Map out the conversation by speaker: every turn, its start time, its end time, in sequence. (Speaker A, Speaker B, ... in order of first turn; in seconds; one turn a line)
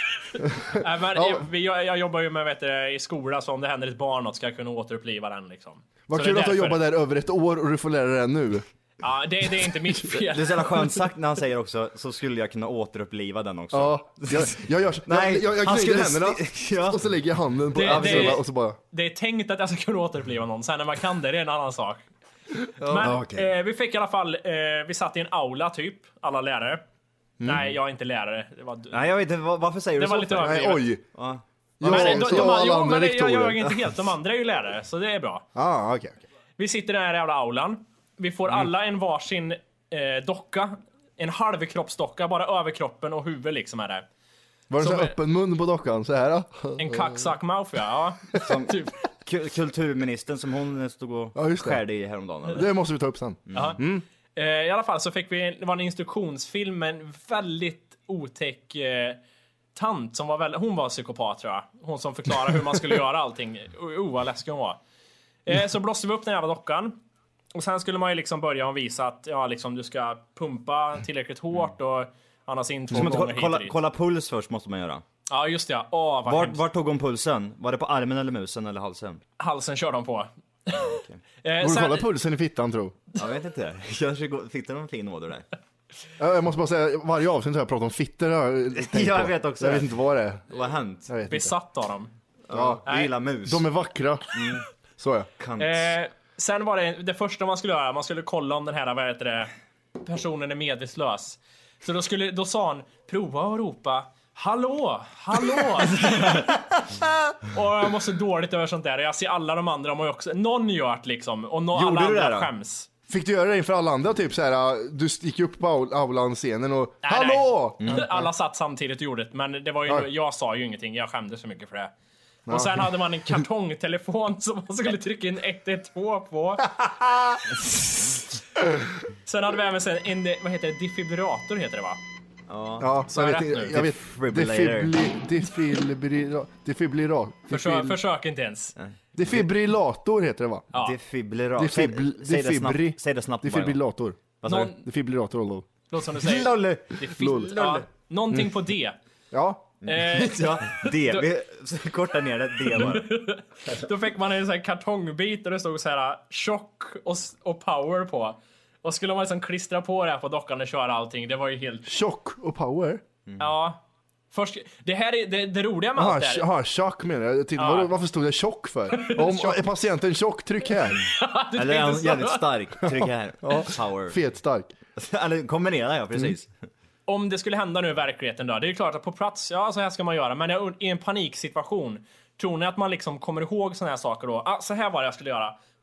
Speaker A: 0.4-1.4
Speaker B: 0.7-6.9
Speaker A: 6.1-8.7
Speaker B: 9.0-10.9
Speaker C: 10.1-17.0
Speaker A: 13.7-18.8
Speaker B: 17.8-22.0
Speaker C: 17.8-18.4
Speaker A: 22.8-23.2
Speaker B: 22.8-26.8
Speaker C: 23.0-23.5
Speaker A: 27.4-27.7
Speaker B: 27.4-29.1
Speaker C: 28.9-32.4
Speaker B: 30.0-30.9
Speaker A: 30.3-31.0
Speaker A: 31.8-33.9
Speaker B: 31.8-35.5
Speaker A: 35.5-36.2
Speaker B: 36.6-44.0
Speaker A: 44.7-47.3
Speaker B: 44.8-45.1
Speaker B: 46.8-48.9
Speaker C: 48.4-52.7
Speaker A: 51.4-51.8
Speaker A: 52.5-54.0
Speaker C: 53.5-53.8
Speaker B: 53.5-53.8
Speaker B: 54.4-59.2
Speaker B: 59.8-64.8
Speaker B: 65.5-67.0
Speaker B: 67.5-73.8
Speaker A: 72.9-73.2
Speaker C: 72.9-75.0
Speaker B: 75.3-76.6
Speaker C: 76.3-79.2
Speaker B: 79.4-82.1
Speaker C: 80.7-81.2
Speaker A: 81.6-83.0
Speaker C: 83.2-85.5
Speaker A: 86.2-90.4
Speaker C: 88.7-89.9
Speaker C: 90.5-91.1
Speaker A: 91.1-91.5
Speaker B: 91.3-92.1
Speaker C: 92.5-93.7
Speaker A: 92.5-92.8
Speaker B: 92.9-93.1
Speaker A: 93.5-94.3
Speaker C: 94.3-94.7
Speaker A: 95.0-95.3
Speaker C: 95.4-95.9
Speaker B: 95.6-106.6
Speaker C: 106.0-106.5
Speaker B: 107.4-112.9
Speaker C: 111.7-112.5
Speaker A: 113.1-118.3
Speaker B: 117.0-121.9
Speaker A: 122.5-122.9
Speaker B: 122.5-126.7
Speaker A: 126.6-127.5
Speaker B: 129.2-132.0
Speaker C: 132.5-132.9
Speaker A: 132.8-138.0
Speaker B: 133.1-133.8
Speaker C: 133.7-135.0
Speaker B: 137.5-138.8
Speaker C: 138.8-139.5
Speaker A: 139.2-140.7
Speaker C: 140.7-143.8
Speaker A: 141.6-145.7
Speaker C: 144.4-144.7
Speaker B: 144.5-144.9
Speaker B: 145.9-149.0
Speaker C: 146.2-147.9
Speaker A: 147.1-147.6
Speaker A: 149.3-149.7
Speaker C: 149.8-153.2
Speaker B: 149.9-151.3
Speaker B: 152.7-161.9
Speaker A: 161.9-163.0
Speaker B: 163.4-163.8
Speaker B: 164.3-166.5
Speaker A: 166.0-171.0
Speaker B: 167.6-167.9
Speaker B: 168.9-169.7
Speaker B: 170.9-172.5
Speaker C: 171.5-174.2
Speaker A: 173.0-174.7
Speaker C: 175.0-176.5
Speaker B: 177.1-185.6